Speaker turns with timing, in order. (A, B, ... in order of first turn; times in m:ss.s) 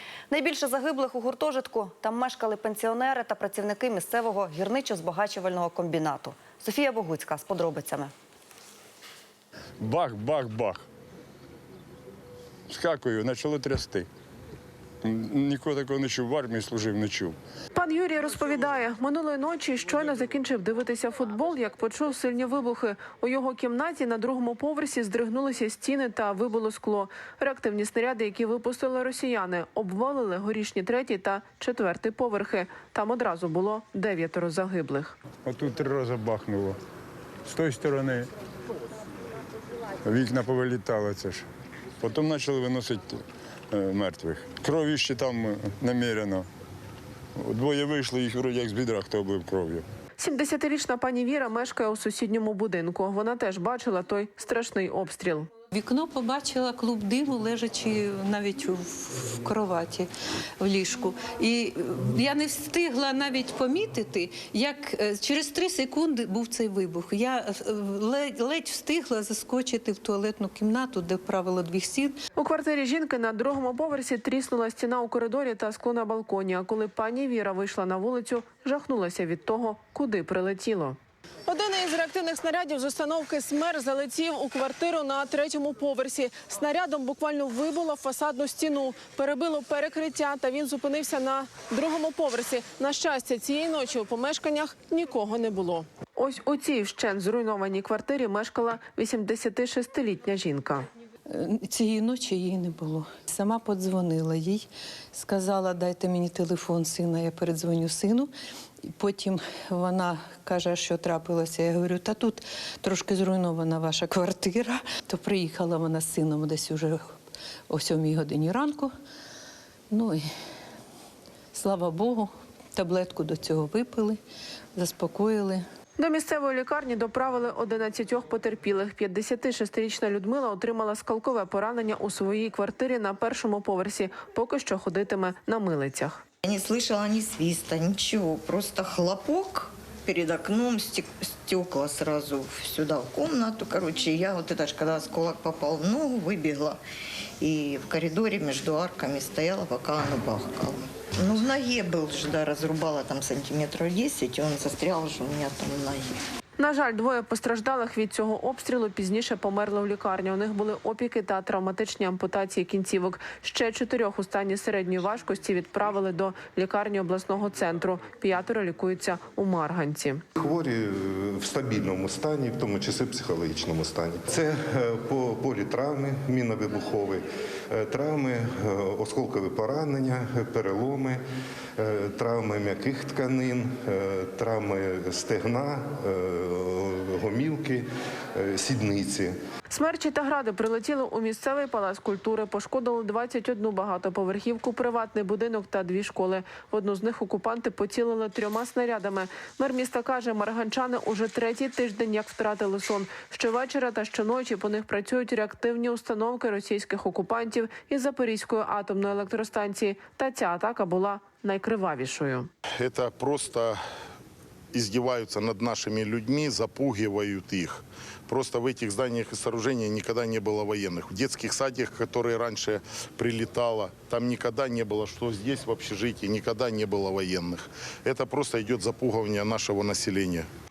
0:00.3-0:08.1 A
0:09.8-0:10.8 B
0:12.7-0:14.1 B
0:15.0-0:17.4 B
0:17.8-0:35.2 C
0:35.4-0:36.8 B
0:37.5-0:38.3 B
0:40.0-0:41.4 B
0:42.0-0:46.4 B
0:47.4-0:49.8 B
0:50.2-0:55.5 C
0:55.7-1:12.2 D
1:12.4-1:40.9 C
1:41.3-1:48.3 D
1:48.8-1:57.2 D
1:57.7-1:58.9 D
1:59.9-2:00.2 D
2:01.5-2:04.2 D
2:04.8-2:05.6 D
2:06.0-2:16.2 C
2:16.5-2:26.8 E
2:27.4-2:36.2 E
2:36.6-2:50.2 C
2:50.4-3:01.2 F
3:01.8-3:09.4 F
3:09.7-3:32.5 C
3:32.8-3:33.8 G
3:34.7-3:50.5 G